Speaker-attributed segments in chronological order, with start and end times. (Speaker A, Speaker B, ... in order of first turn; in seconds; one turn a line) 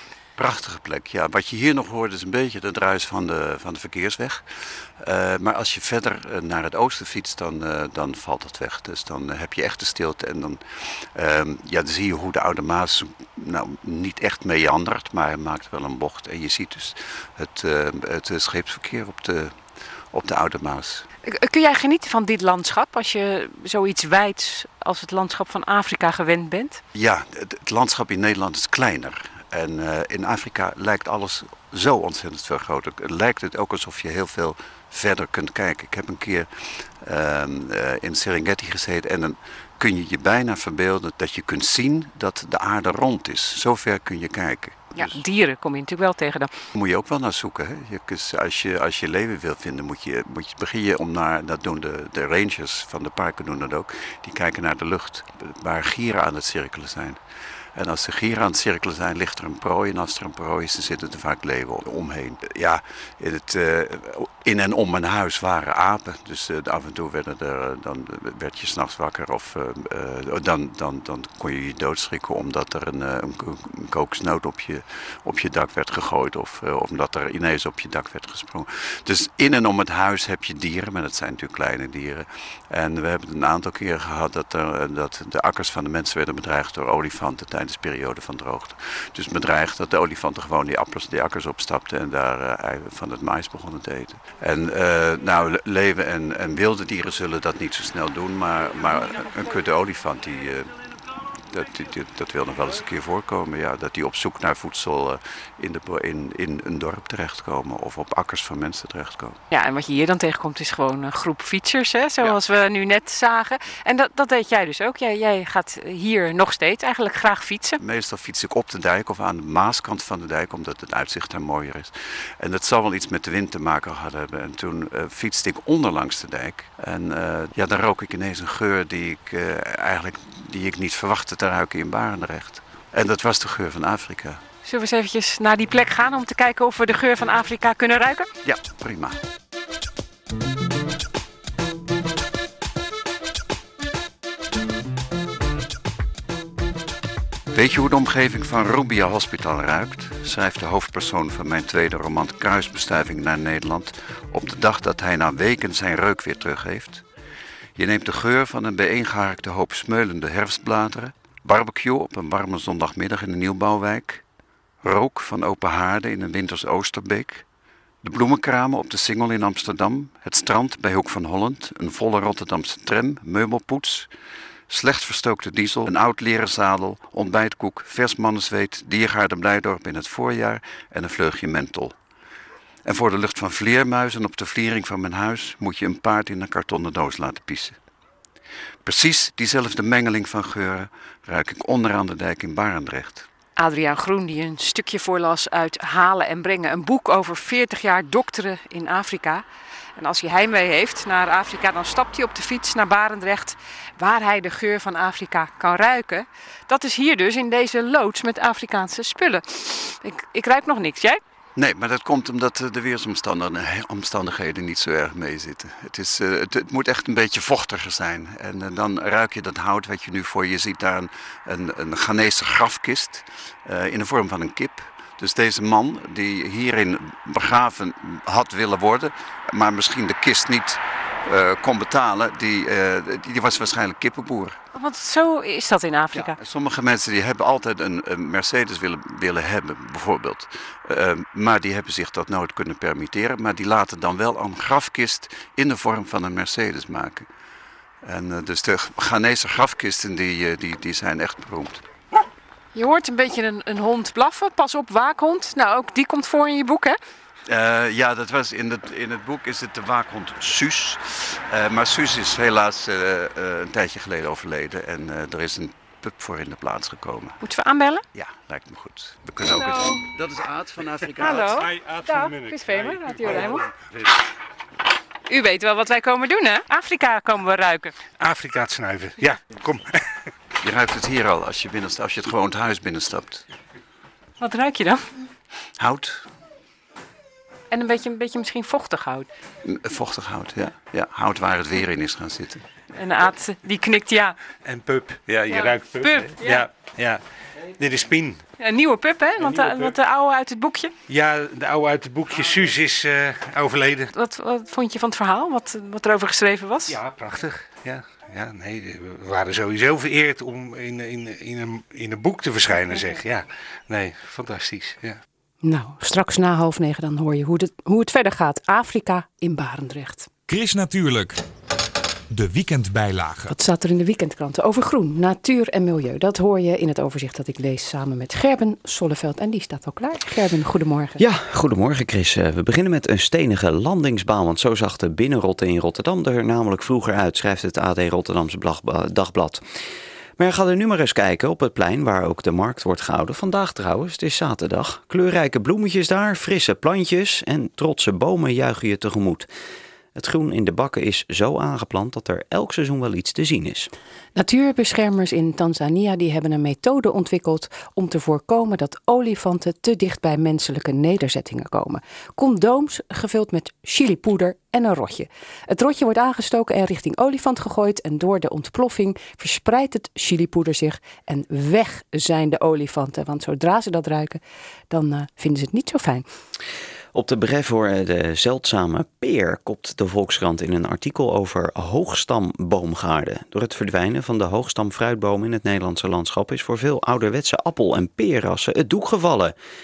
Speaker A: 0.4-21.1
Speaker B: 21.2-26.8
Speaker A: 26.9-45.2
Speaker B: 45.0-46.5
Speaker A: 46.7-57.2
Speaker A: 57.7-109.4
Speaker B: 109.5-117.8
Speaker A: 117.8-134.4
Speaker B: 134.6-138.3
Speaker A: 138.4-139.2
Speaker A: 147.5-157.0
Speaker A: 157.8-164.2
Speaker A: 164.8-167.4
Speaker A: 168.0-174.1
Speaker A: 174.7-181.9
Speaker A: 182.8-187.8
Speaker A: 188.8-193.3
Speaker B: 193.6-199.4
Speaker B: 200.0-211.2
Speaker A: 211.5-234.6
Speaker B: 234.7-236.4
Speaker A: 236.1-247.3
Speaker A: 248.0-251.8
Speaker B: 252.7-257.0
Speaker A: 257.4-267.4
Speaker B: 267.4-268.0
Speaker A: 268.1-271.6
Speaker B: 269.5-270.0
Speaker B: 271.2-273.6
Speaker C: 271.4-274.0
Speaker B: 275.3-277.9
Speaker C: 278.2-279.9
Speaker A: 280.6-283.4
Speaker B: 284.4-285.0
Speaker A: 285.8-286.2
Speaker B: 287.7-289.3
Speaker A: 289.6-292.6
Speaker B: 292.9-294.4
Speaker C: 294.6-297.2
Speaker B: 295.5-296.6
Speaker C: 297.8-298.4
Speaker B: 298.6-300.9
Speaker C: 299.4-299.9
Speaker C: 301.1-304.1
Speaker B: 304.1-307.0
Speaker C: 306.9-315.2
Speaker B: 315.6-320.3
Speaker D: 320.5-321.4
Speaker D: 322.3-323.5
Speaker B: 323.5-331.2
Speaker E: 331.2-339.8
Speaker E: 340.4-349.5
Speaker E: 350.1-353.9
Speaker B: 354.4-376.2
Speaker E: 377.1-389.5